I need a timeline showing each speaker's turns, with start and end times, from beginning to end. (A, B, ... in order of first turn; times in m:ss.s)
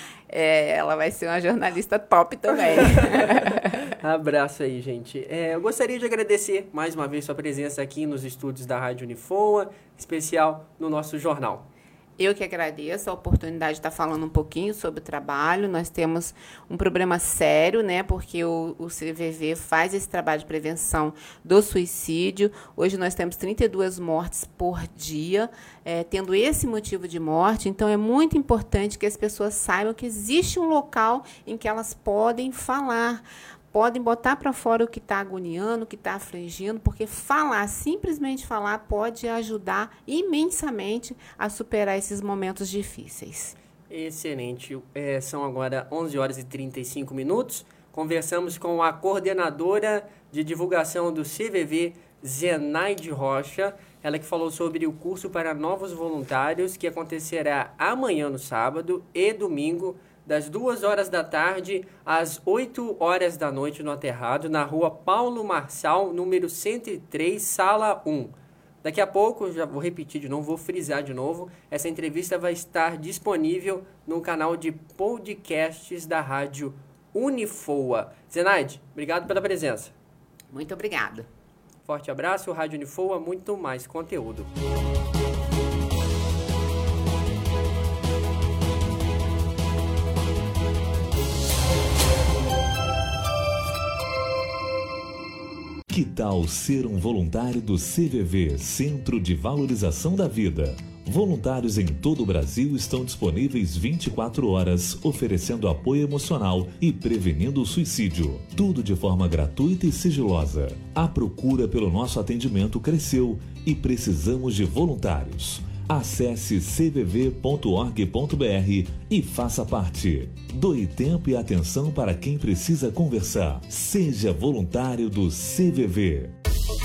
0:00.3-0:03.8 A
0:04.0-0:11.7 B
0:12.2-0:43.6 A
0:43.9-1:19.9 B
1:20.5-1:21.3 A
1:21.8-1:24.5 B
1:35.9-2:06.3 C